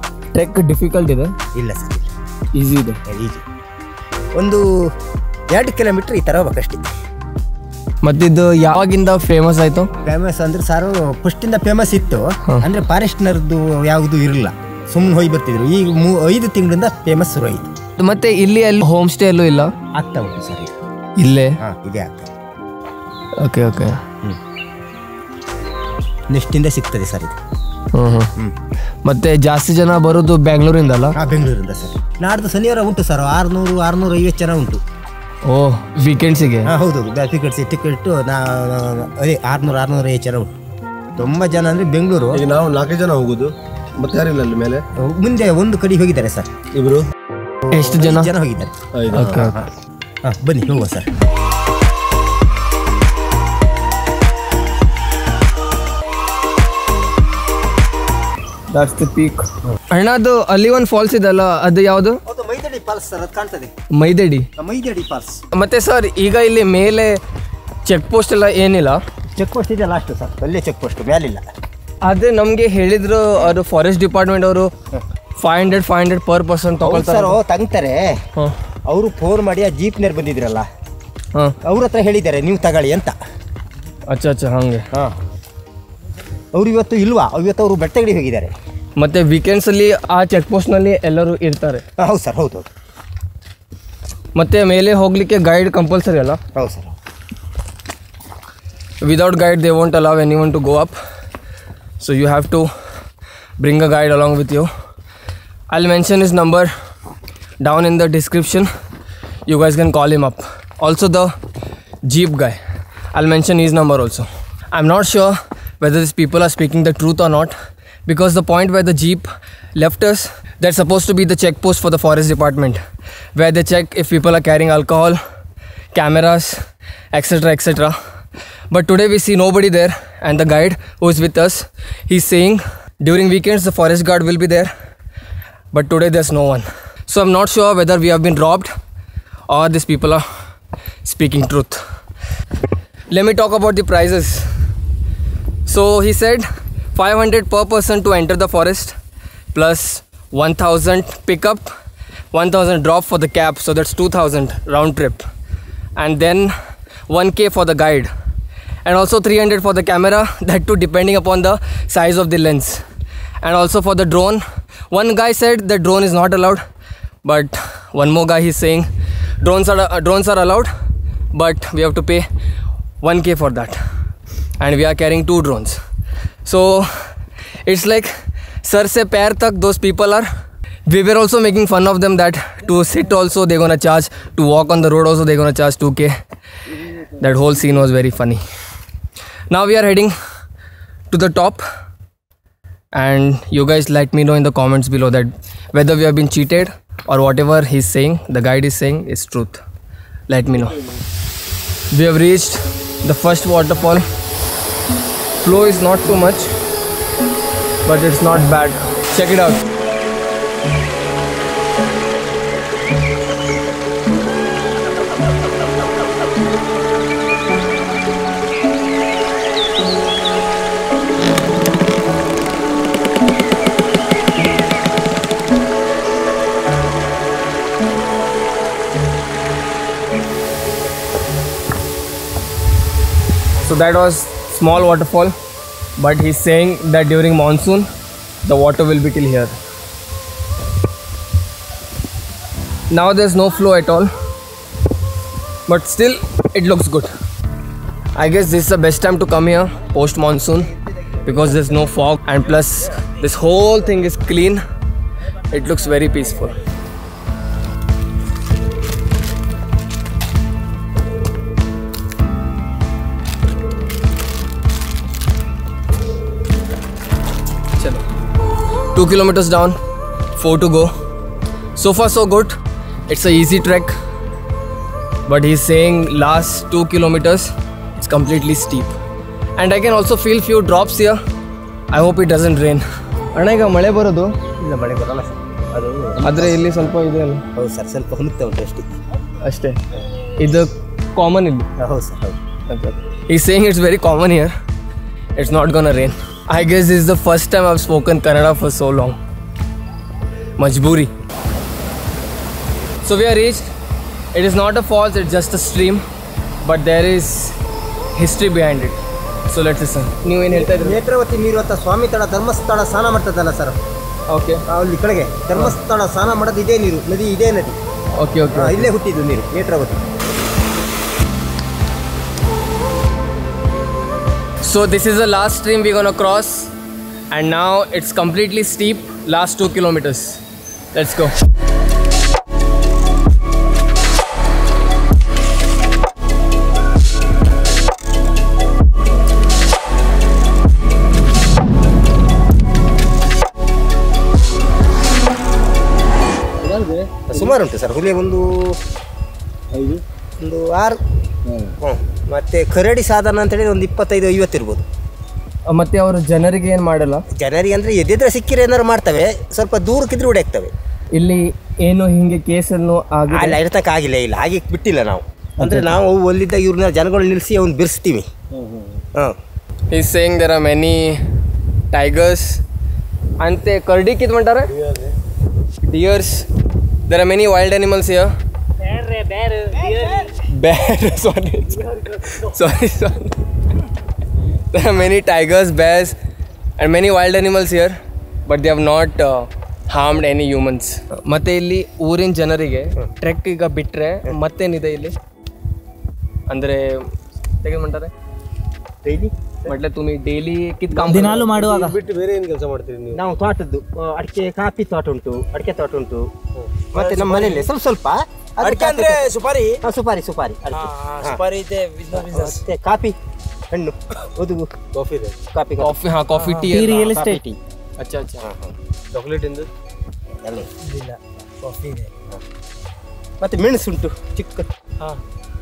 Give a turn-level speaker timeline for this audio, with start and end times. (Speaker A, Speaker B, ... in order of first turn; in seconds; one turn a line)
Speaker A: 0.3-1.3
Speaker B: 1.5-2.1
Speaker A: 2.5-3.0
Speaker B: 3.0-3.4
Speaker B: 4.3-4.9
Speaker B: 5.5-6.9
Speaker A: 8.0-9.9
Speaker B: 10.0-17.7
Speaker A: 18.0-19.7
Speaker B: 19.9-20.9
Speaker A: 21.2-21.6
Speaker B: 21.6-22.3
Speaker A: 23.4-24.0
Speaker B: 26.3-27.4
Speaker A: 27.9-28.3
Speaker A: 29.0-31.2
Speaker B: 31.1-34.8
Speaker A: 35.4-36.7
Speaker B: 36.6-40.5
Speaker B: 41.2-42.5
Speaker C: 42.3-44.8
Speaker B: 45.0-46.5
Speaker C: 46.7-47.1
Speaker A: 47.7-48.3
Speaker B: 47.7-49.7
Speaker C: 48.9-49.4
Speaker A: 49.1-49.6
Speaker B: 50.2-51.1
Speaker A: 58.7-62.2
Speaker B: 62.2-63.7
Speaker A: 63.9-64.5
Speaker B: 64.6-65.4
Speaker A: 65.5-67.2
Speaker A: 67.8-69.0
Speaker B: 69.3-71.4
Speaker A: 72.0-74.7
Speaker A: 75.4-77.4
Speaker B: 76.8-78.2
Speaker B: 78.9-80.6
Speaker B: 81.6-83.2
Speaker A: 84.1-84.9
Speaker B: 84.9-85.2
Speaker B: 86.5-88.5
Speaker A: 89.0-91.8
Speaker B: 92.0-92.7
Speaker A: 94.3-96.4
Speaker B: 96.5-97.0
Speaker A: 99.0-100.9
Speaker A: 102.0-102.7
Speaker A: 103.6-104.7
Speaker A: 105.7-106.7
Speaker A: 107.6-108.7
Speaker A: 109.5-111.3
Speaker A: 112.0-112.6
Speaker A: 113.1-117.5
Speaker A: 118.0-122.8
Speaker A: 123.3-125.2
Speaker A: 125.9-126.6
Speaker A: 127.1-128.0
Speaker A: 128.7-134.7
Speaker A: 135.7-138.7
Speaker A: 139.5-140.2
Speaker A: 141.0-141.8
Speaker A: 143.1-144.5
Speaker A: 145.7-148.9
Speaker A: 149.5-151.7
Speaker A: 152.3-155.2
Speaker A: 155.9-156.5
Speaker A: 157.1-158.1
Speaker A: 158.8-162.8
Speaker A: 163.4-166.6
Speaker A: 167.2-168.9
Speaker A: 169.4-170.7
Speaker A: 171.3-172.2
Speaker A: 173.0-173.8
Speaker A: 174.6-175.8
Speaker A: 176.4-177.1
Speaker A: 177.7-178.1
Speaker A: 178.6-180.3
Speaker A: 180.8-186.1
Speaker A: 187.0-188.4
Speaker A: 189.5-190.1
Speaker A: 191.1-191.6
Speaker A: 192.9-199.6
Speaker A: 200.3-200.9
Speaker A: 201.9-204.0
Speaker A: 205.4-206.5
Speaker A: 207.8-209.6
Speaker A: 233.6-235.3
Speaker A: 236.0-237.9
Speaker A: 238.4-239.5
Speaker A: 242.9-244.1
Speaker A: 245.7-247.1
Speaker A: 248.1-250.7
Speaker A: 251.2-254.6
Speaker A: 255.5-256.6
Speaker A: 267.7-268.0
Speaker A: 268.9-269.8
Speaker A: 270.4-270.9
Speaker A: 271.8-272.6
Speaker A: 273.1-273.9
Speaker A: 275.2-278.9
Speaker A: 279.6-281.2
Speaker A: 281.9-284.4
Speaker B: 284.6-286.8
Speaker A: 286.2-287.4
Speaker B: 287.5-288.9
Speaker A: 289.4-291.7
Speaker B: 291.8-292.4
Speaker A: 292.7-294.5
Speaker A: 295.4-299.2
Speaker A: 300.6-301.1
Speaker A: 303.0-303.7
Speaker A: 304.3-306.0
Speaker A: 306.6-307.6
Speaker A: 308.1-311.0
Speaker B: 310.5-313.8
Speaker A: 314.3-314.6
Speaker B: 314.7-317.8
Speaker A: 318.2-318.9
Speaker B: 318.5-320.1
Speaker A: 324.6-326.7
Speaker A: 327.3-330.4
Speaker A: 330.9-331.3
Speaker C: 346.6-347.6
Speaker B: 347.3-348.8
Speaker C: 349.7-350.0
Speaker B: 350.4-351.0
Speaker C: 351.4-351.8
Speaker B: 351.8-354.8
Speaker A: 355.7-357.2
Speaker B: 357.3-360.7
Speaker A: 361.1-363.6
Speaker B: 363.3-368.2
Speaker A: 365.6-365.9
Speaker C: 368.5-369.0
Speaker A: 369.9-371.2
Speaker A: 371.9-372.6
Speaker A: 373.4-374.8
Speaker A: 375.8-376.4
Speaker A: 377.1-378.3
Speaker C: 378.9-380.1
Speaker A: 380.1-383.4
Speaker A: 384.7-386.2
Speaker A: 386.8-395.1
Speaker A: 396.5-398.1
Speaker B: 399.0-399.3
Speaker A: 399.6-401.5
Speaker C: 400.9-403.2
Speaker D: 401.2-402.0
Speaker B: 403.1-406.3
Speaker C: 406.6-407.7
Speaker B: 406.9-411.4
Speaker D: 408.6-409.2
Speaker C: 408.9-409.8
Speaker D: 410.8-412.6
Speaker C: 411.6-412.2
Speaker B: 412.1-413.2
Speaker B: 413.7-414.7
Speaker C: 414.9-415.4
Speaker B: 415.5-416.0
Speaker A: 415.8-417.2
Speaker D: 416.5-417.4
Speaker B: 416.6-417.6
Speaker A: 418.0-418.5
Speaker B: 418.4-418.7
Speaker C: 419.1-419.7
Speaker B: 420.4-420.7
Speaker D: 420.8-422.1
Speaker C: 421.7-422.1
Speaker B: 423.4-424.7